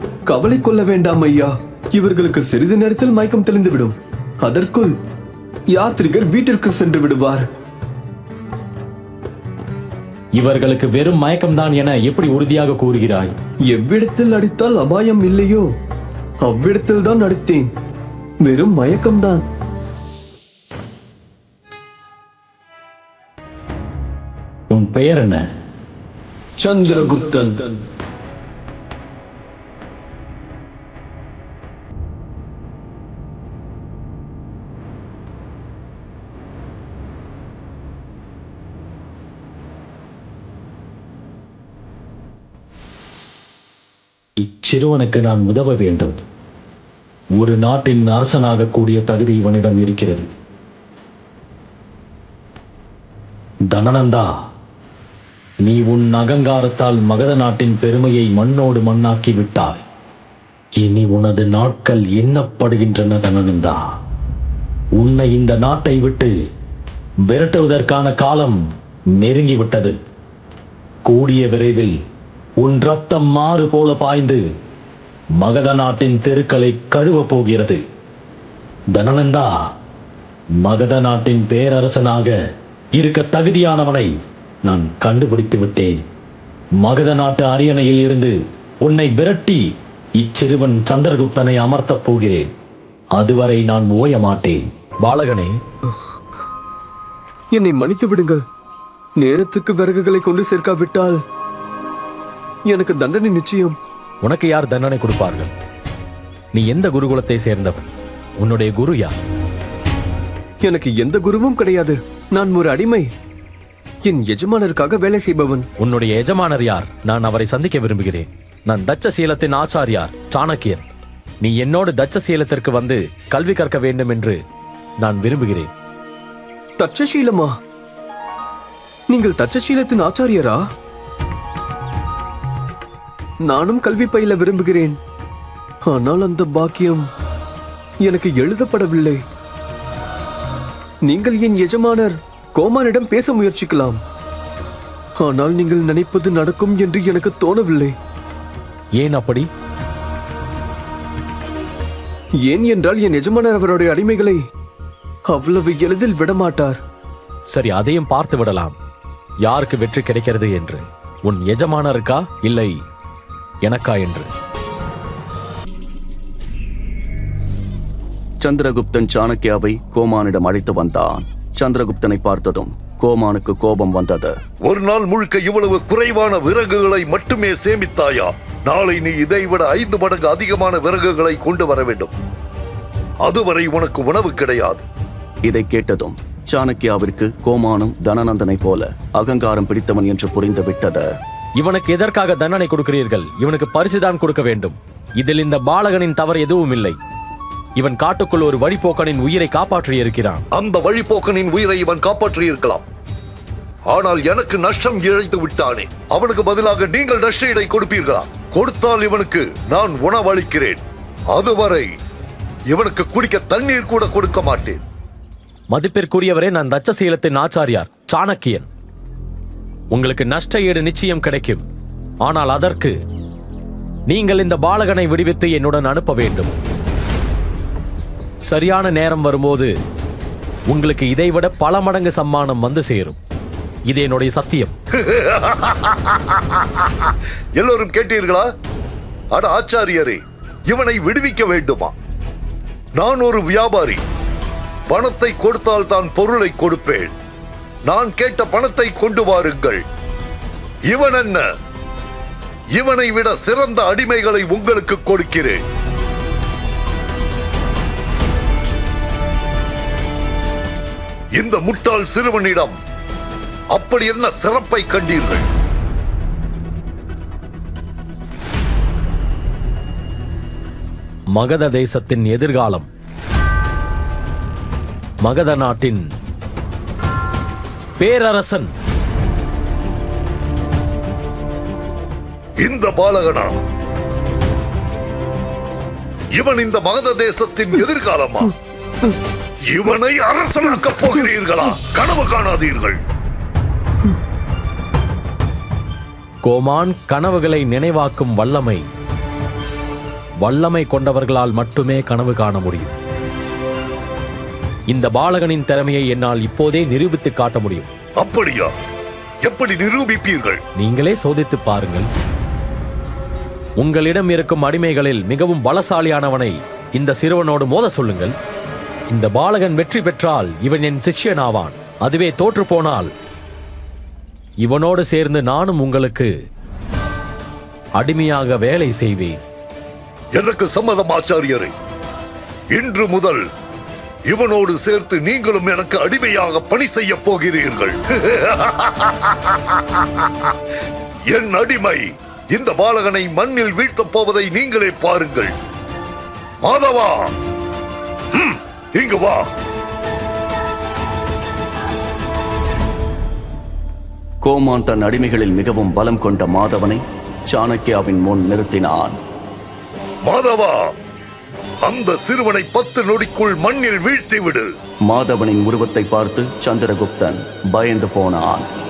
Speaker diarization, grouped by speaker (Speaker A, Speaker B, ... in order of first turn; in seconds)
Speaker A: 0.3-5.0, 5.7-7.5, 13.7-15.7, 16.4-17.7, 18.4-19.4, 26.6-27.8, 97.5-98.4, 99.2-101.2, 102.7-103.8, 110.6-113.1, 114.0-115.7, 126.8-127.5, 129.1-130.6, 133.4-135.0, 135.9-137.1, 138.0-139.2, 141.1-144.0, 145.2-148.0, 152.4-154.4, 155.3-156.8
Speaker B: 10.4-13.3, 24.7-25.5, 44.4-46.2, 47.4-50.3, 53.7-54.4, 55.6-59.8, 60.8-63.9, 65.0-66.3, 67.3-68.6, 69.2-70.0, 71.1-72.0, 72.6-74.5, 75.4-77.8, 78.9-79.6, 80.6-82.4, 83.0-84.1, 84.7-86.0, 86.8-92.5, 93.2-95.6, 104.2-105.5, 106.5-109.2, 115.8-120.9, 121.4-124.4, 125.0-125.7, 149.0-149.5, 157.5-158.8, 159.4-162.8, 163.7-164.3, 191.6-197.0, 197.8-200.4, 215.7-218.7, 219.9-221.7, 222.2-222.9, 224.1-226.5, 228.5-229.7, 230.7-233.2, 233.9-234.7, 271.4-272.9, 275.2-276.1, 278.0-278.7, 296.4-298.9, 300.4-302.9, 304.9-307.9, 310.8-312.1, 313.8-318.4, 319.1-323.1, 324.6-326.3, 328.0-329.4
Speaker C: 168.4-174.4, 185.4-191.1, 354.4-359.2, 365.1-368.7
Speaker D: 174.7-182.1, 183.2-184.9, 200.6-202.8, 203.9-211.9, 212.7-214.8, 234.9-238.5, 239.3-241.9, 243.0-244.0, 244.9-247.1, 247.9-249.8, 250.9-251.5, 252.8-255.6, 261.4-262.8, 263.7-265.5, 282.6-283.6, 286.4-288.6, 289.7-293.0, 308.2-308.7, 309.4-310.6, 330.4-331.7, 332.7-333.4, 334.3-340.6, 341.3-345.5, 346.6-347.3, 348.3-349.5, 360.3-360.8, 361.9-364.7